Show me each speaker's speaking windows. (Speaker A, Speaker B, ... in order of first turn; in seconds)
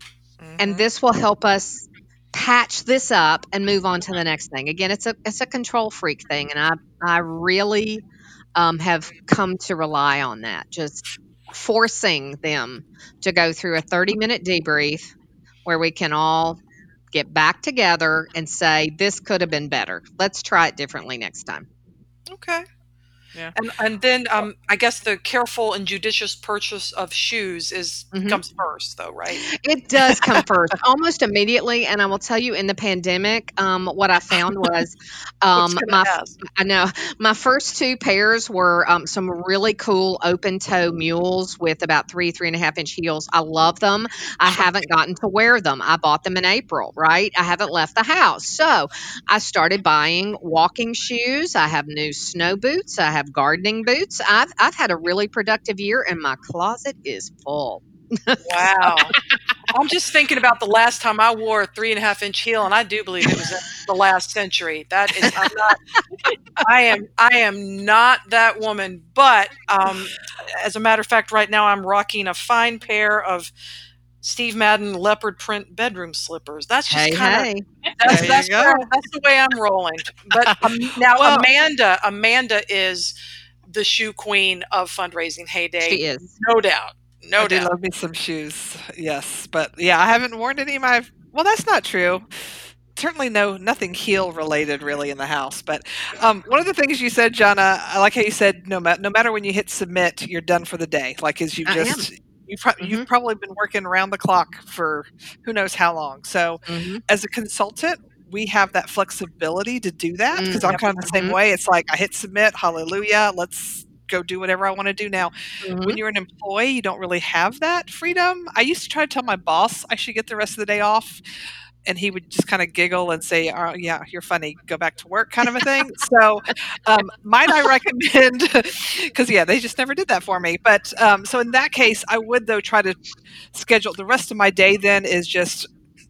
Speaker A: 0.4-0.8, 78.0-78.9, 80.3-81.5, 87.4-92.3, 92.9-121.2, 121.8-133.0, 133.5-135.7
Speaker B: 0.6-8.0, 8.5-15.1, 15.6-16.6, 17.1-21.7, 28.1-28.4, 29.4-59.2, 76.9-77.6, 85.8-86.3, 101.7-102.1, 102.8-103.0, 106.7-107.0, 110.3-111.4, 115.6-116.0
Speaker C: 22.3-22.6, 23.5-29.5, 35.5-36.3, 58.4-59.1, 59.7-65.8, 66.6-73.5, 74.2-83.1, 83.7-87.7, 110.7-110.9